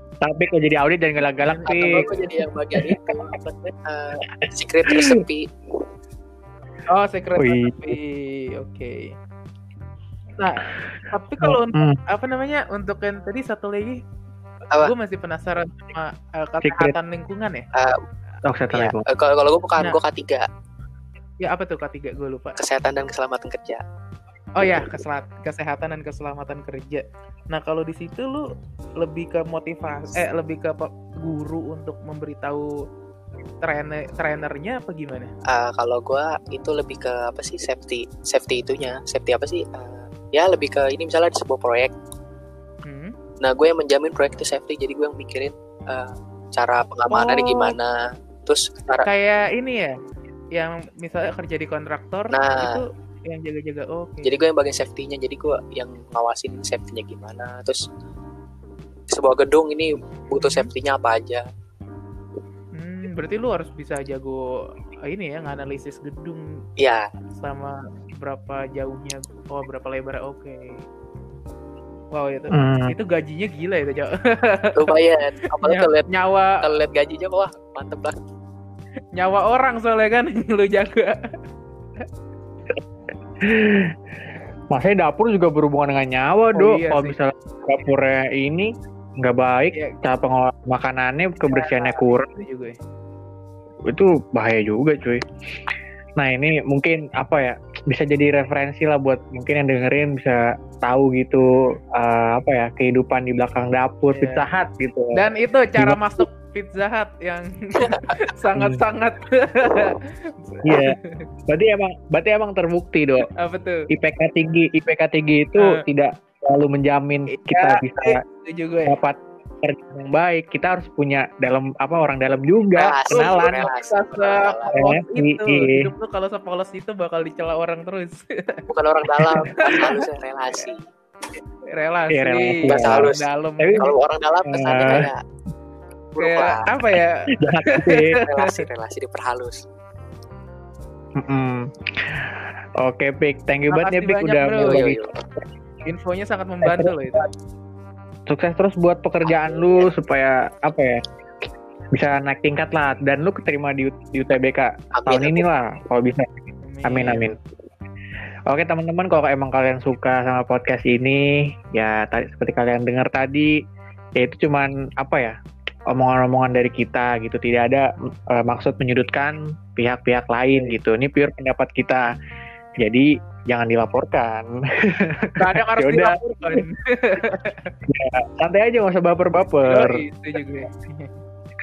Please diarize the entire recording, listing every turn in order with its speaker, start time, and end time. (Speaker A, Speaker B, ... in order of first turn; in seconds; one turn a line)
Speaker A: 0.2-2.1
Speaker B: 1.4-2.5
Speaker C: 1.7-5.5
Speaker A: 4.9-5.2
Speaker B: 6.9-9.2
Speaker A: 7.4-8.0
Speaker B: 10.4-14.0
Speaker A: 11.4-12.0
Speaker B: 14.8-17.7
Speaker A: 16.6-17.0
Speaker C: 17.7-18.0
Speaker A: 18.4-19.1
Speaker C: 18.7-20.5
Speaker B: 21.4-22.6
Speaker C: 22.6-23.8
Speaker B: 24.6-32.8
Speaker B: 33.6-35.3
Speaker C: 35.5-41.9
Speaker B: 42.9-43.1
Speaker C: 43.4-49.1
Speaker B: 47.1-47.8
Speaker B: 49.0-50.0
Speaker B: 50.5-54.5
Speaker C: 52.3-52.8
Speaker C: 54.2-57.8
Speaker C: 59.1-61.5
Speaker B: 60.4-60.7
Speaker B: 62.8-64.5
Speaker B: 65.0-66.7
Speaker C: 66.8-67.1
Speaker B: 67.4-70.8
Speaker B: 72.1-75.0
Speaker A: 72.5-73.0
Speaker C: 74.8-76.1
Speaker B: 75.6-76.7
Speaker C: 76.6-78.2
Speaker B: 79.1-81.4
Speaker A: 83.4-84.0
Speaker A: 84.7-92.3
Speaker B: 86.5-87.2
Speaker B: 89.7-90.0
Speaker B: 91.5-92.8
Speaker A: 93.9-95.2
Speaker A: 96.2-105.3
Speaker B: 104.1-104.5
Speaker B: 105.2-111.3
Speaker A: 105.8-106.2
Speaker A: 108.5-108.8
Speaker A: 110.6-111.0
Speaker A: 111.5-113.3
Speaker B: 113.3-113.9
Speaker A: 113.9-118.2
Speaker B: 115.6-115.8
Speaker B: 117.3-119.0
Speaker A: 118.9-123.7
Speaker C: 122.8-124.9
Speaker B: 123.1-128.6
Speaker A: 124.7-125.9
Speaker C: 128.7-130.9
Speaker B: 129.3-130.0
Speaker B: 131.7-134.0
Speaker A: 132.1-133.9
Speaker C: 132.7-133.2
Speaker C: 133.8-135.2
Speaker A: 134.5-135.1
Speaker C: 136.2-136.7
Speaker B: 136.2-138.7
Speaker A: 137.3-138.2
Speaker C: 138.2-139.6
Speaker A: 141.2-145.0
Speaker B: 143.7-144.9
Speaker C: 144.6-145.2
Speaker B: 145.8-147.3
Speaker A: 146.6-147.3
Speaker A: 148.3-151.0
Speaker C: 149.3-149.9
Speaker A: 151.9-157.4
Speaker C: 154.9-155.5
Speaker B: 156.6-157.4
Speaker A: 158.5-163.6
Speaker A: 164.2-165.4
Speaker A: 165.9-172.2
Speaker A: 172.8-176.6
Speaker B: 175.4-177.8
Speaker A: 177.9-180.0
Speaker B: 179.7-181.1